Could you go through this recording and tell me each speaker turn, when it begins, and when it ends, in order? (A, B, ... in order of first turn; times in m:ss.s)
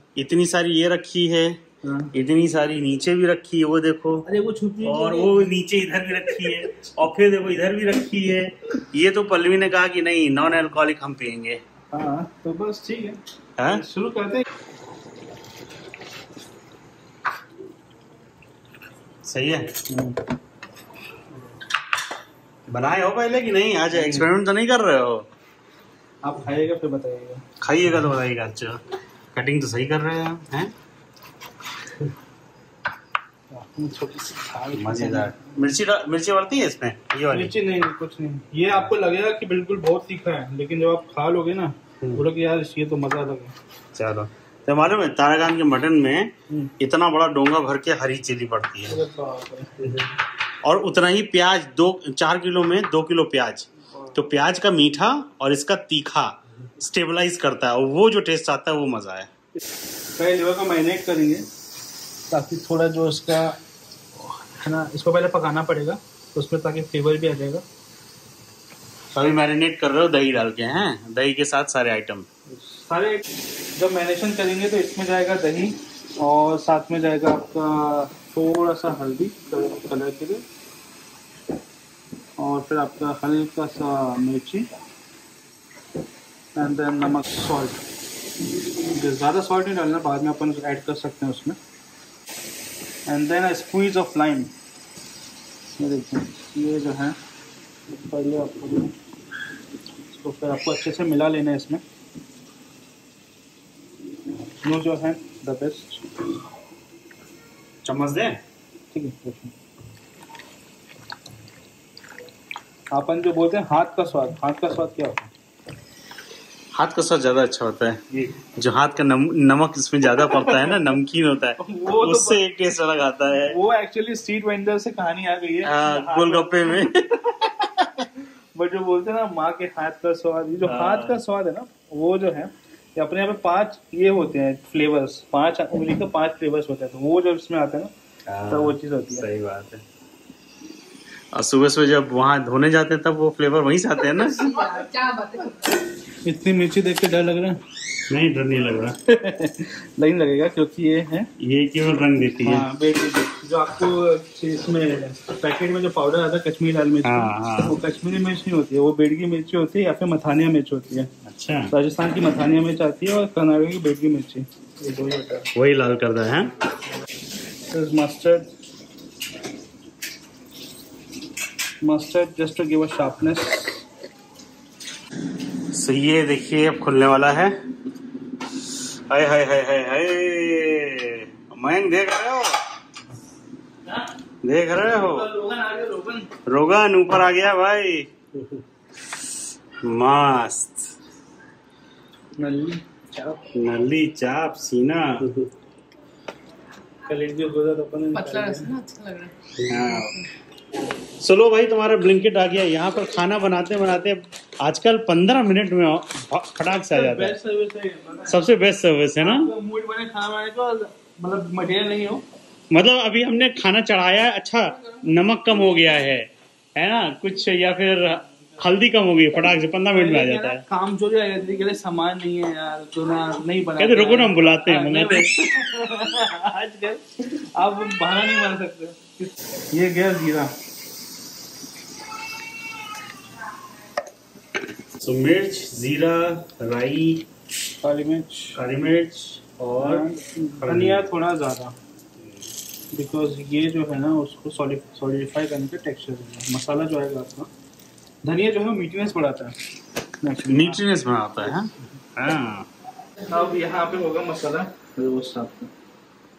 0:00.2-0:01.6 A
0:01.8-0:02.1 B
0:02.1-0:04.3 A
0:04.2-0:05.5 B
0:04.8-0:11.6 A
0:11.9-0:14.4 B
0:13.6-0:13.8 A
0:19.2-0:19.7 A
0:19.9-0:20.2 B
0:22.7-0:25.3 A
0:24.0-0:24.3 B
0:26.2-0:27.4 B
0:27.6-0:30.7 A
0:33.5-0:35.6 B
0:34.7-0:37.5 A
0:37.3-0:43.5 B
0:43.9-0:49.0 A
0:48.9-0:50.0 B
0:50.6-0:59.3 A
1:00.2-1:01.5 B
1:02.3-1:03.6 B
1:04.6-1:07.6 B
1:09.1-1:12.3 A
1:12.5-1:13.2 B
1:13.8-1:20.4 B
1:22.4-1:24.7 B
1:26.5-1:27.8 B
1:28.9-1:31.6 B
1:33.1-1:34.5 B
1:35.8-1:37.2 B
1:37.9-1:38.9 B
1:40.1-1:41.8 B
1:44.6-1:46.1 B
1:47.8-1:48.4 A
1:48.9-1:49.5 B
1:52.9-1:55.3 B
1:56.7-2:03.6 A
2:00.2-2:00.8 B
2:01.6-2:02.4 B
2:03.5-2:07.5 B
2:05.6-2:08.0 A
2:08.5-2:17.9 B
2:10.6-2:11.2 A
2:18.3-2:19.8 A
2:18.5-2:19.3 B
2:21.3-2:24.6 A
2:24.1-2:25.8 C
2:26.2-2:27.6 B
2:28.1-2:29.0 A
2:29.1-2:31.3 B
2:31.4-2:32.7 A
2:32.4-2:41.1 B
2:37.0-2:37.8 A
2:41.2-2:41.7 A
2:41.7-2:45.5 B
2:45.5-2:46.5 A
2:47.7-2:48.5 B
2:51.8-2:53.8 B
2:55.7-2:57.6 A
2:59.1-3:02.6 A
3:04.4-3:05.3 A
3:04.9-3:06.3 B
3:06.4-3:08.1 A
3:09.8-3:10.9 A
3:12.4-3:13.4 B
3:13.5-3:15.3 A
3:17.1-3:18.7 B
3:18.1-3:19.6 C
3:19.6-3:20.2 A
3:21.2-3:27.4 A
3:26.9-3:28.4 B
3:28.3-3:29.5 A
3:29.2-3:32.2 B
3:32.7-3:40.6 A
3:39.9-3:50.5 B
3:43.8-3:45.4 A
3:55.0-3:57.3 A
3:57.8-3:58.6 B
3:58.5-4:00.1 A
3:59.8-4:01.8 B
4:00.6-4:01.0 A
4:02.2-4:02.4 A
4:02.9-4:07.5 B
4:08.2-4:09.6 B
4:10.2-4:10.8 B
4:10.5-4:12.7 A
4:13.3-4:15.7 B